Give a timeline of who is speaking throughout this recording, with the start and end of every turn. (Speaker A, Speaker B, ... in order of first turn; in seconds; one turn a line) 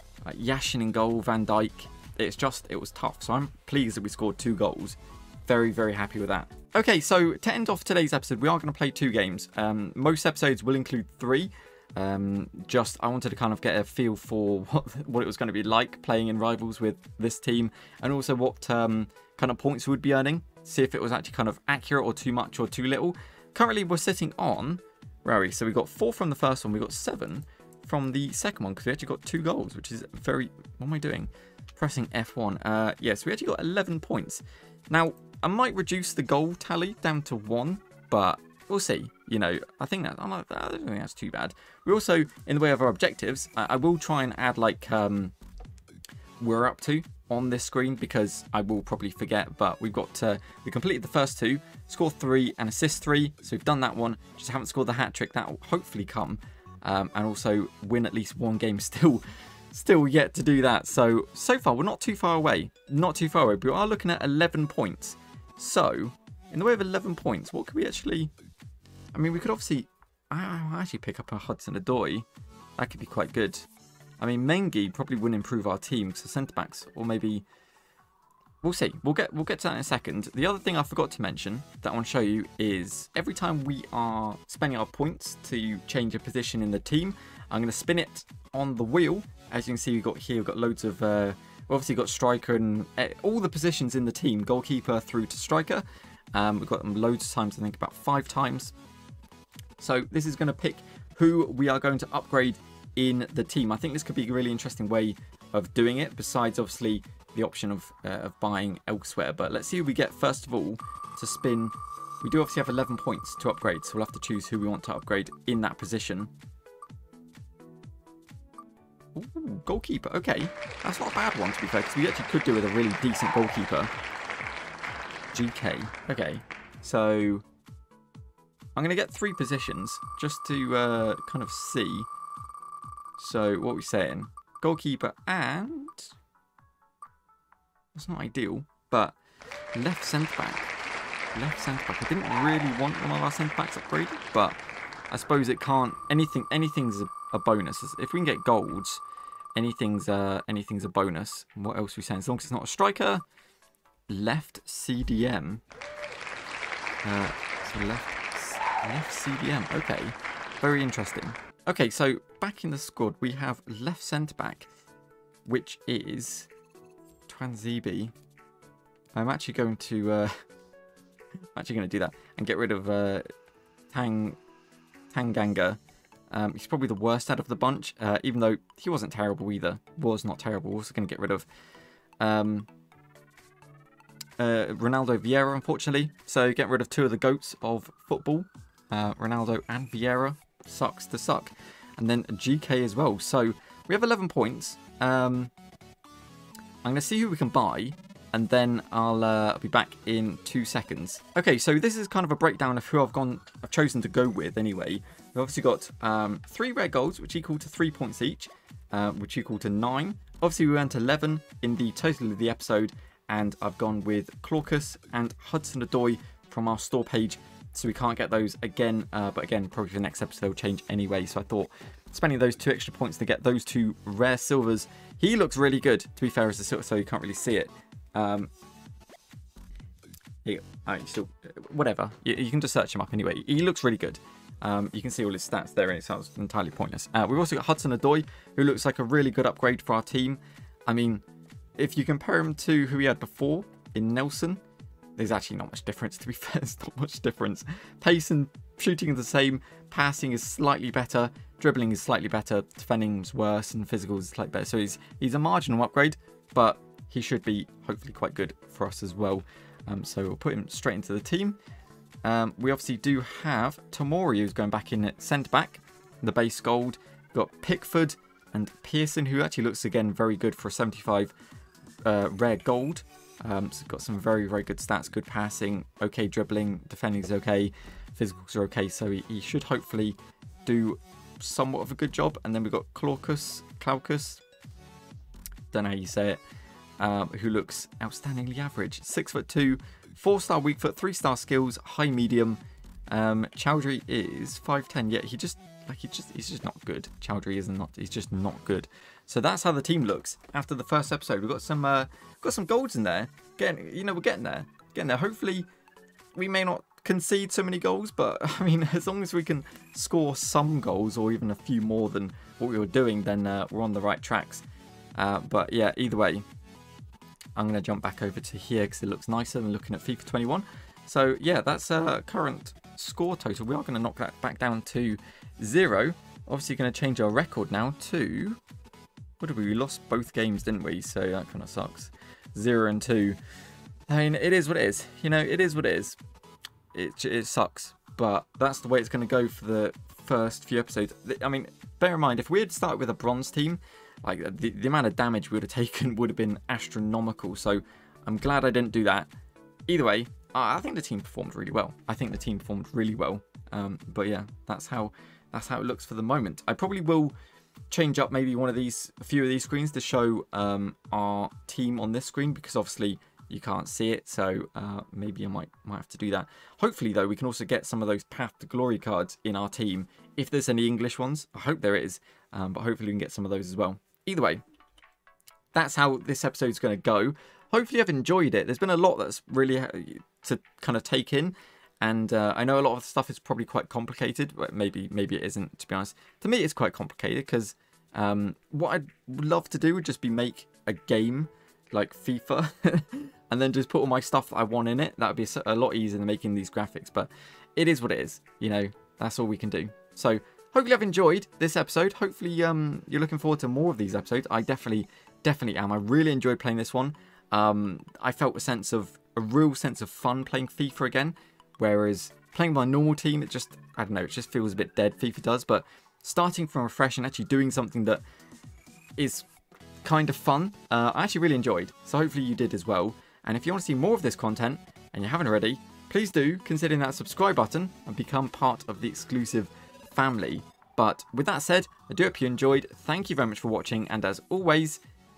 Speaker A: 0.2-45.3
Speaker A: 46.4-68.3
Speaker A: 69.1-73.7
Speaker A: 74.2-77.5
Speaker A: 78.6-98.7
Speaker A: 99.8-116.3
Speaker A: 119.1-123.9
Speaker A: 125.3-127.4
Speaker A: 128.7-132.1
Speaker A: 133.2-136.1
Speaker A: 137.9-139.2
Speaker A: 139.7-140.7
Speaker A: 141.3-144.6
Speaker A: 145.1-149.0
Speaker A: 149.5-153.2
Speaker A: 154.1-155.6
Speaker A: 157.0-164.7
Speaker A: 165.4-166.5
Speaker A: 167.3-168.1
Speaker A: 169.1-170.4
Speaker A: 171.5-173.3
Speaker A: 173.9-174.4
Speaker A: 175.1-181.4
Speaker A: 182.2-182.7
Speaker A: 184.4-195.5
Speaker A: 196.8-228.5
Speaker A: 230.4-241.2
Speaker A: 241.8-244.6
Speaker A: 245.2-261.6
Speaker A: 262.2-271.3
Speaker A: 272.0-284.4
Speaker A: 285.7-286.4
Speaker A: 287.0-305.7
Speaker A: 306.3-314.6
Speaker A: 315.1-316.4
Speaker A: 317.6-328.6
Speaker A: 329.4-333.4
Speaker A: 334.1-336.2
Speaker A: 336.9-349.3
Speaker A: 349.9-357.3
Speaker A: 357.9-374.6
Speaker A: 375.7-418.2
Speaker A: 419.2-419.5
Speaker A: 420.0-435.0